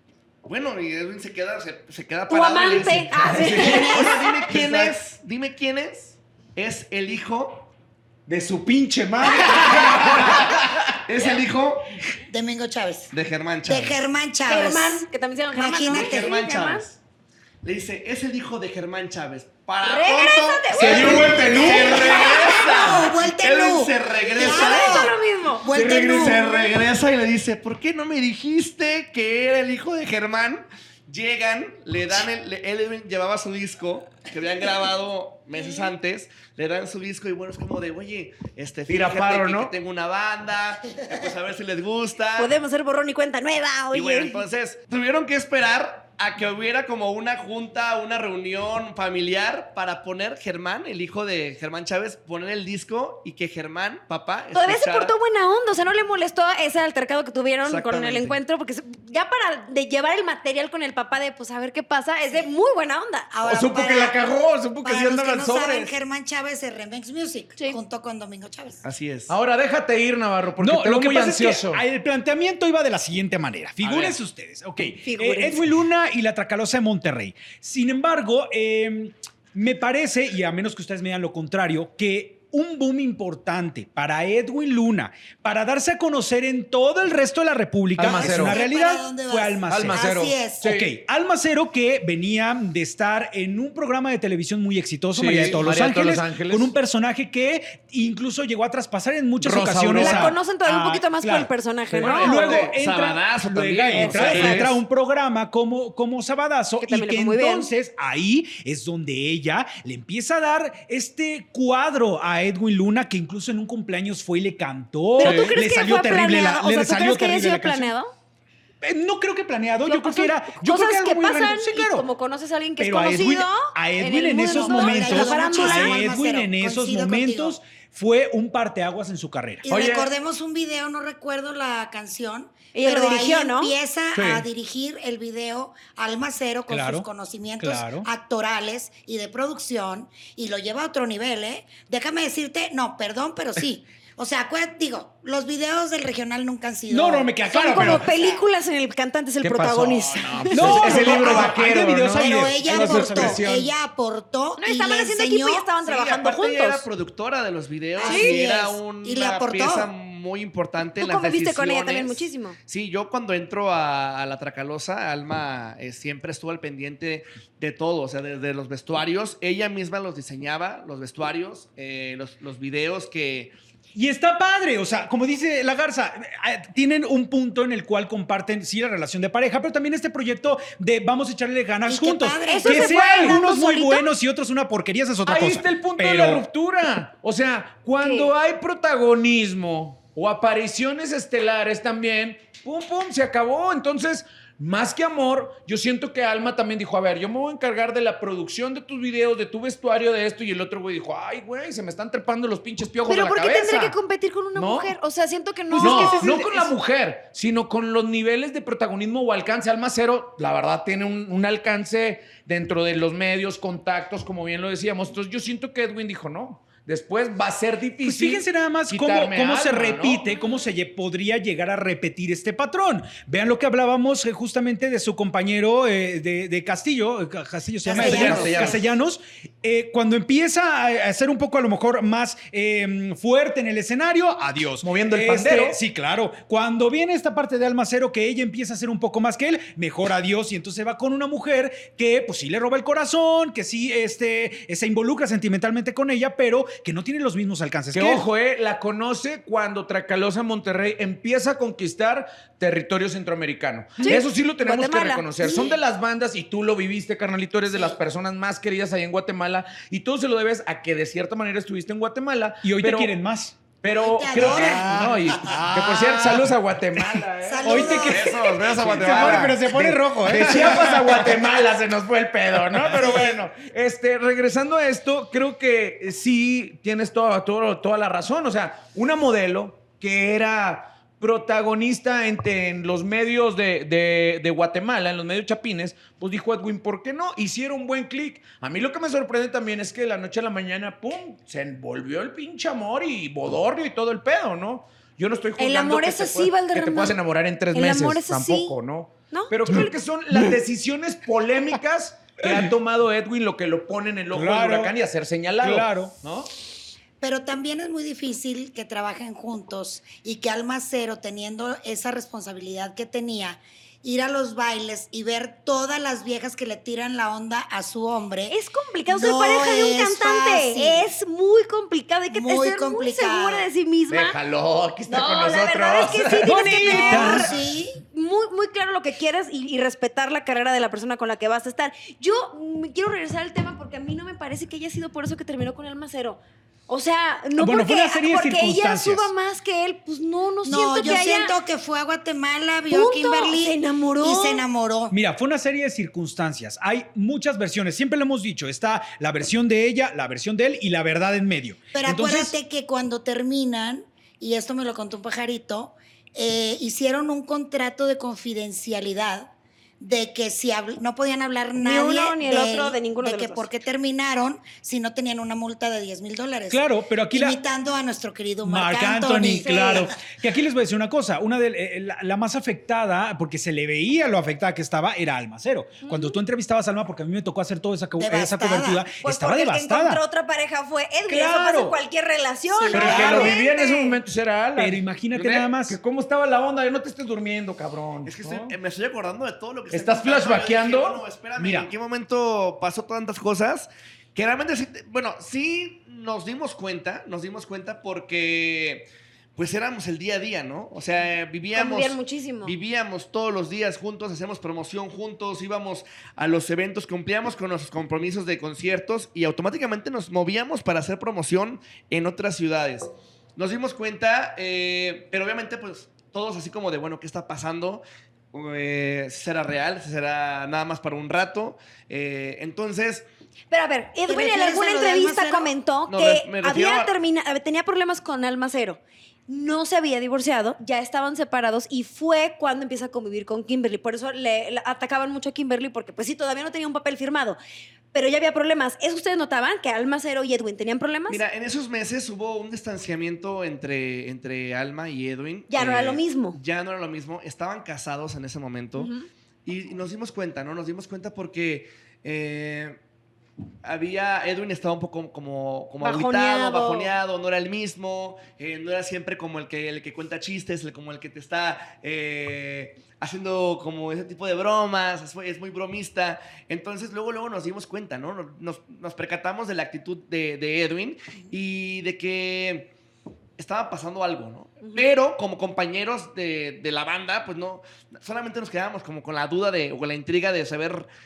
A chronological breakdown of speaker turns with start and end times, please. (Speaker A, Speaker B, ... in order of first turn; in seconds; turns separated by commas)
Speaker A: 0.4-7.7, Speaker B: 2.3-4.5, Speaker C: 3.2-3.9, Speaker D: 3.6-4.3, Speaker C: 4.5-4.9, Speaker C: 8.3-10.9, Speaker A: 9.5-10.4, Speaker A: 11.1-11.9, Speaker D: 12.3-13.1, Speaker A: 13.1-14.0, Speaker D: 13.7-16.3, Speaker B: 14.5-16.8, Speaker A: 15.8-17.0, Speaker A: 17.6-25.1, Speaker B: 19.8-22.9, Speaker C: 20.7-23.0, Speaker D: 21.1-26.6, Speaker B: 24.3-25.7, Speaker A: 25.7-42.5, Speaker C: 25.7-26.6, Speaker B: 35.5-35.9, Speaker C: 38.9-39.7, Speaker B: 42.4-44.4, Speaker A: 43.9-55.1, Speaker B: 54.5-63.3, Speaker A: 57.6-58.4, Speaker D: 63.3-64.2, Speaker C: 63.4-65.9, Speaker D: 64.8-68.8, Speaker A: 68.8-69.3, Speaker C: 69.3-71.8, Speaker E: 70.6-90.0, Speaker A: 73.8-74.2, Speaker B: 75.0-75.6, Speaker C: 88.0-88.6, Speaker D: 88.0-90.7, Speaker C: 89.7-90.9, Speaker E: 90.6-117.9, Speaker C: 95.1-96.7, Speaker C: 99.4-100.3, Speaker B: 99.9-102.7, Speaker C: 101.9-102.7, Speaker A: 102.2-104.6, Speaker C: 103.9-104.8, Speaker B: 103.9-104.7, Speaker B: 106.8-107.7, Speaker B: 115.2-118.1, Speaker C: 115.2-115.5, Speaker E: 118.8-122.0, Speaker B: 119.8-126.0, Speaker E: 122.8-129.6, Speaker D: 124.5-127.6, Speaker D: 129.6-147.3, Speaker C: 129.7-130.1, Speaker B: 132.7-133.7, Speaker C: 134.1-134.4, Speaker E: 136.7-137.1, Speaker E: 137.6-138.1, Speaker E: 146.9-148.1, Speaker B: 147.5-151.4, Speaker D: 147.9-148.4, Speaker C: 149.4-153.7, Speaker E: 150.5-153.4, Speaker D: 150.8-151.6, Speaker D: 152.1-155.7, Speaker B: 154.6-156.8, Speaker A: 155.8-173.5, Speaker D: 158.0-159.9, Speaker B: 158.0-158.4, Speaker B: 161.0-162.6, Speaker E: 173.9-186.4, Speaker D: 181.8-183.3, Speaker B: 182.5-184.0, Speaker C: 185.3-204.0, Speaker B: 188.0-188.3, Speaker B: 203.1-206.7, Speaker C: 204.5-204.9, Speaker E: 205.7-206.4, Speaker C: 205.7-220.3, Speaker E: 218.0-248.2, Speaker D: 227.8-228.7, Speaker C: 227.9-228.9, Speaker C: 234.8-235.8, Speaker C: 247.9-263.1, Speaker B: 254.0-255.7, Speaker E: 262.6-263.6, Speaker C: 263.8-268.1, Speaker D: 264.0-265.5, Speaker E: 264.4-271.4, Speaker D: 267.4-268.6, Speaker A: 267.9-269.6, Speaker C: 268.7-306.5, Speaker A: 270.3-271.1, Speaker E: 273.0-273.3, Speaker B: 295.6-297.1, Speaker B: 297.7-298.7, Speaker B: 299.3-300.0, Speaker E: 302.4-302.7, Speaker E: 304.3-304.9, Speaker E: 305.6-306.1, Speaker D: 307.2-318.6, Speaker B: 318.5-324.4, Speaker D: 319.1-321.0, Speaker D: 322.3-323.7, Speaker C: 324.1-326.7, Speaker B: 325.1-327.6, Speaker E: 326.4-327.5, Speaker D: 326.8-328.0, Speaker B: 328.1-341.6, Speaker E: 337.6-339.3, Speaker D: 340.6-345.1, Speaker B: 342.9-344.6, Speaker E: 345.1-352.5, Speaker D: 351.9-366.8, Speaker B: 361.8-363.7, Speaker E: 366.7-367.6, Speaker D: 367.3-370.1, Speaker E: 368.6-380.2, Speaker B: 369.6-370.1, Speaker B: 376.0-376.4, Speaker D: 378.2-379.0, Speaker B: 379.2-384.2, Speaker E: 381.3-382.0, Speaker E: 382.8-383.6, Speaker C: 382.9-388.7, Speaker E: 384.8-386.0, Speaker A: 388.2-418.0, Speaker C: 389.9-391.2, Speaker E: 391.6-391.9, Speaker B: 401.7-402.7, Speaker A: 418.5-423.2, Speaker B: 423.7-437.6, Speaker D: 424.3-425.7, Speaker A: 426.1-427.1, Speaker B: 438.1-441.4, Speaker A: 441.3-449.1, Speaker B: 445.7-446.6, Speaker B: 449.0-449.3, Speaker A: 449.6-453.0, Speaker A: 453.8-472.9, Speaker B: 456.0-457.1, Speaker A: 473.6-481.1